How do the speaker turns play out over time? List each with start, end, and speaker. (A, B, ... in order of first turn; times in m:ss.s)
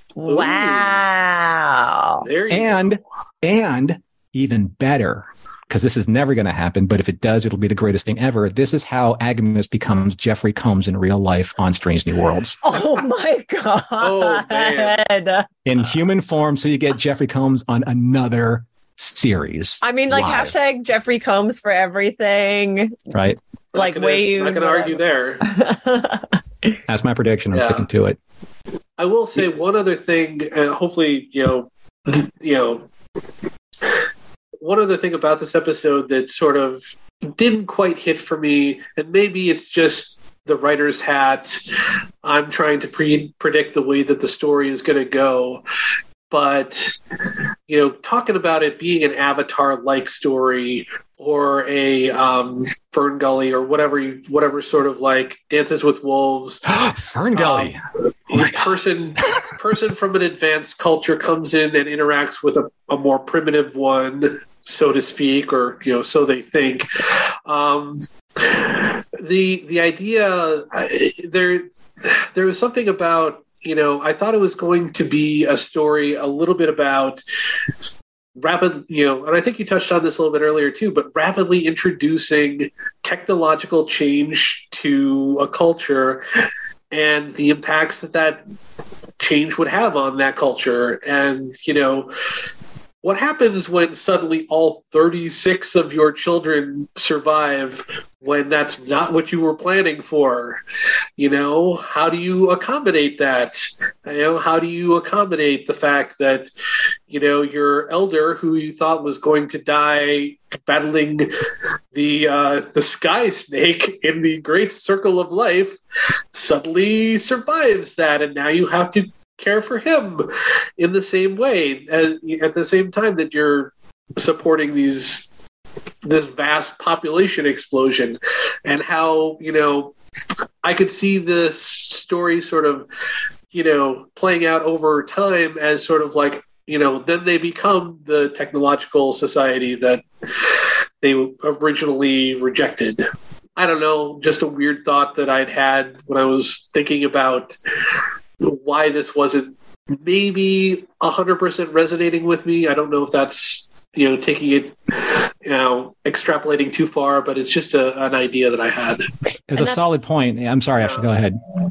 0:00.2-0:02.3 A
0:00.3-0:01.0 B
0:02.2-0:03.0 B
0:02.5-0:12.6 C
0:12.6-0:15.5 A
0:14.0-0:15.0 B
0:15.6-0:20.5 C
0:19.8-0:23.1 A
0:23.1-0:23.4 C
0:23.7-0:25.5 B
0:23.7-0:26.2 A
0:26.9-0:28.2 C
0:27.5-0:27.8 B
0:29.0-0:32.9 B
0:34.6-0:36.8 B
0:37.4-0:41.6 B
0:42.2-0:45.6 B
0:46.3-0:47.0 B
0:47.7-0:56.8 B
0:56.6-0:58.8 C
0:57.3-0:57.7 B
0:58.3-1:06.9 B
1:07.4-1:17.2 B
1:18.4-1:26.2 B
1:26.9-1:28.4 B
1:29.2-1:32.1 B
1:33.0-1:40.6 B
1:41.2-1:46.5 B
1:47.1-1:51.3 B
1:51.9-1:55.8 B
1:56.3-2:05.3 B
2:06.0-2:09.9 B
2:10.6-2:12.8 B
2:13.5-2:20.0 B
2:21.0-2:23.0 B
2:23.6-2:27.5 B
2:28.4-2:39.0 B
2:39.5-2:41.4 C
2:39.6-2:39.8 A
2:40.8-2:41.1 B